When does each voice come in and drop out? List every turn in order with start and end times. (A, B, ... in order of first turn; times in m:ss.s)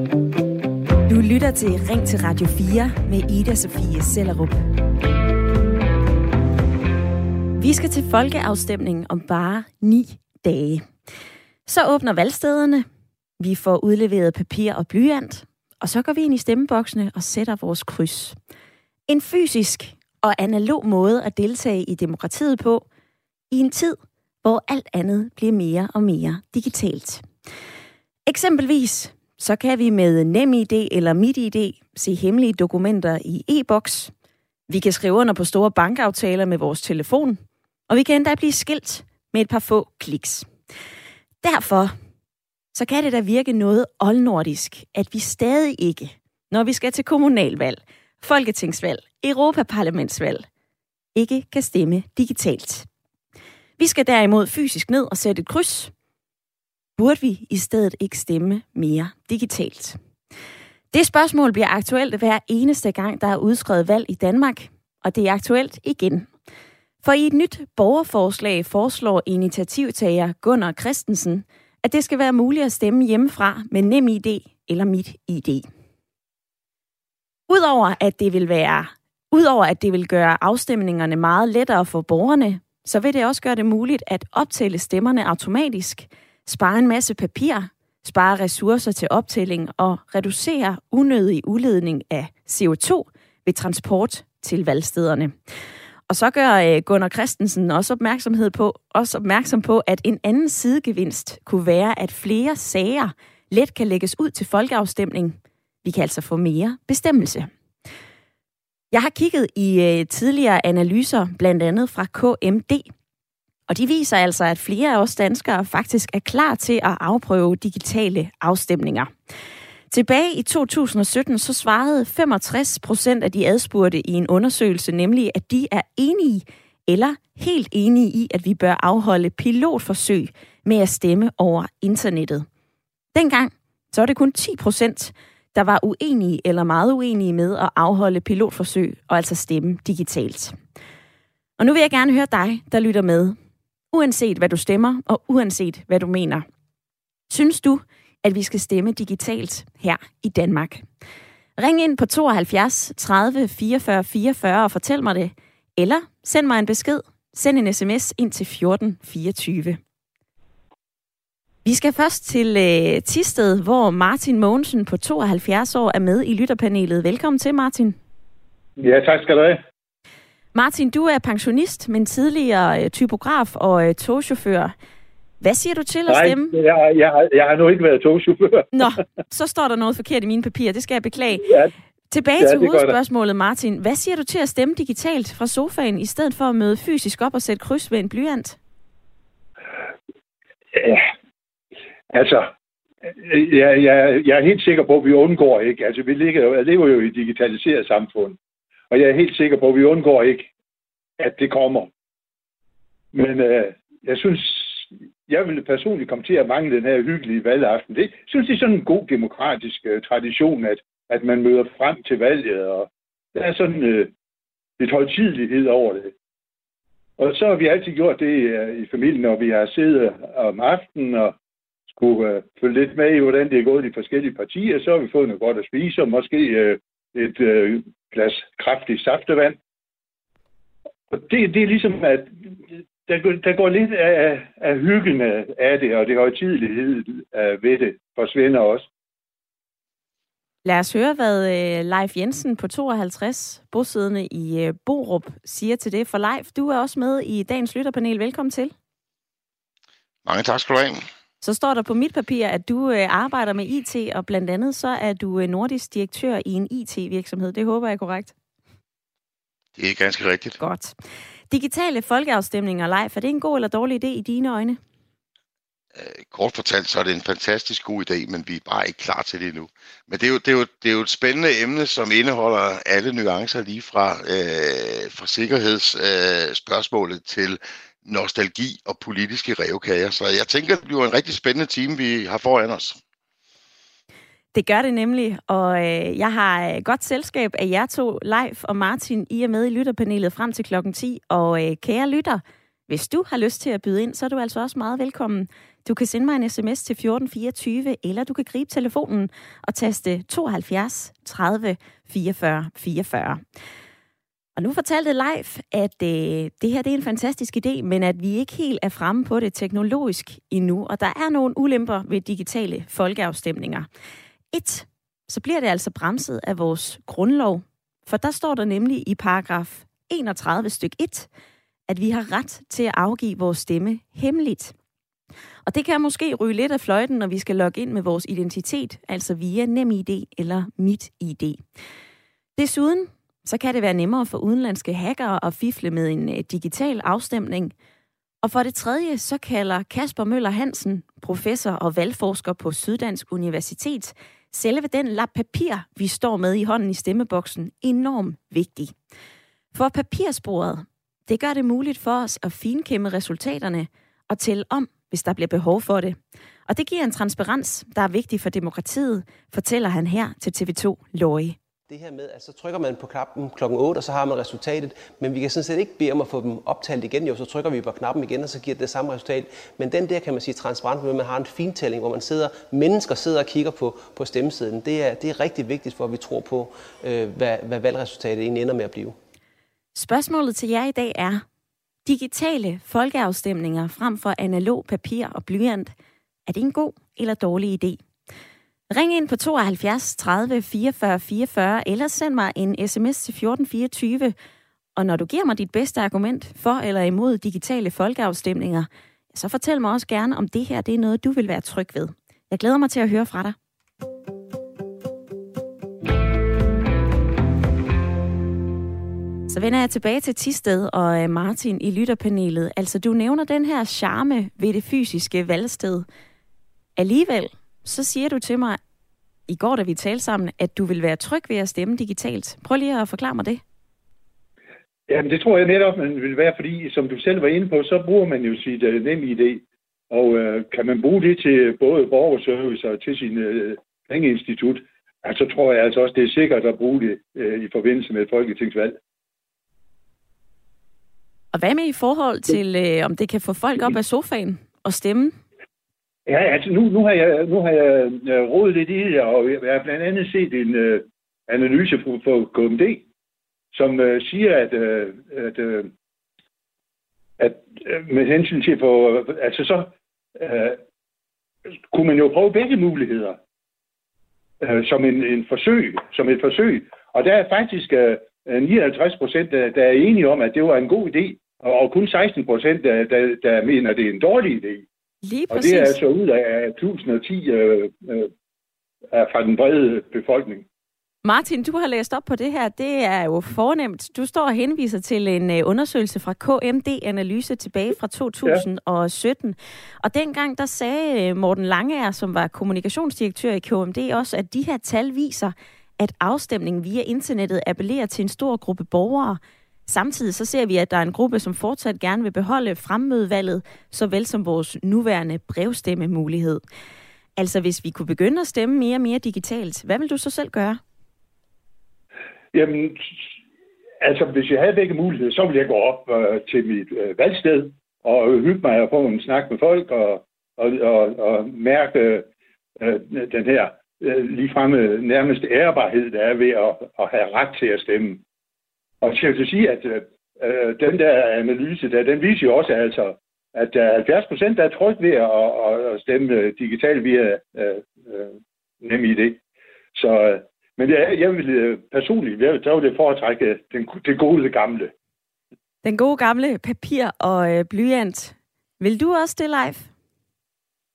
0:01.1-0:04.6 A
0:07.6-0:10.8 A
0:11.6-0:12.8 A
0:13.4-0:18.4 A
0:19.1-0:22.8 A
0:23.5-0:27.2 A
0:28.3-0:34.1 A
0:34.7-0:40.5 A
0:41.4-0:41.9 A
0:42.7-0:50.4 A
0:51.1-0:52.9 A
0:53.8-0:55.9 A
0:57.0-1:00.0 A
1:00.9-1:06.3 A
1:07.0-1:15.6 A
1:17.5-1:35.3 A
1:36.1-1:47.5 A
1:48.9-1:52.8 A
1:53.7-1:59.1 A
1:59.9-2:12.4 A
2:13.1-2:20.6 A
2:21.6-2:23.4 A
2:23.9-2:26.4 A
2:27.3-2:30.8 A
2:31.6-2:39.8 A
2:41.6-2:48.0 A
2:48.8-2:49.6 B
2:50.5-2:54.7 A
2:55.4-2:56.5 A
2:56.1-2:58.8 B
2:58.7-3:01.5 A
3:01.4-3:01.7 B
3:02.1-3:08.6 A
3:02.4-3:03.0 B
3:10.7-3:11.0 B
3:12.1-3:12.5 B
3:13.0-3:18.4 B
3:18.9-3:20.5 B
3:21.2-3:21.9 B
3:23.1-3:34.1 B
3:34.8-3:36.1 B
3:37.2-3:41.3 B
3:41.9-3:49.6 B
3:51.1-3:52.3 B
3:53.0-3:58.9 B
4:00.6-4:08.7 A
4:10.2-4:11.0 C
4:11.4-4:18.3 A
4:19.7-4:20.6 C
4:20.6-4:20.9 A
4:21.5-4:24.8 A
4:25.9-4:43.0 C
4:44.5-5:03.4 A
5:04.6-5:13.9 A
5:14.5-5:21.3 A
5:21.9-5:24.7 A
5:25.6-5:31.6 A
5:32.6-5:37.7 A
5:38.4-5:48.9 A
5:49.7-6:01.6 A
6:01.9-6:19.2 D
6:19.9-6:21.4 A
6:22.0-6:25.9 A
6:26.5-6:28.0 A
6:28.9-6:34.3 A
6:35.0-6:43.6 A
6:49.5-6:56.0 A
6:57.0-6:58.8 A
6:59.5-7:03.6 A
7:05.1-7:19.0 B
7:21.5-7:25.4 A
7:26.3-7:33.0 B
7:33.7-7:35.9 B
7:37.4-7:40.8 B
7:41.9-7:43.4 B
7:44.6-7:54.8 B
7:55.2-7:56.0 A
7:55.5-7:58.3 B
7:59.1-8:00.6 B
8:01.2-8:26.6 A
8:27.4-8:30.8 A
8:32.5-8:33.2 B
8:34.0-8:42.3 B
8:42.8-8:48.2 B
8:49.0-8:59.4 B
8:59.9-9:04.9 B
9:05.8-9:09.9 A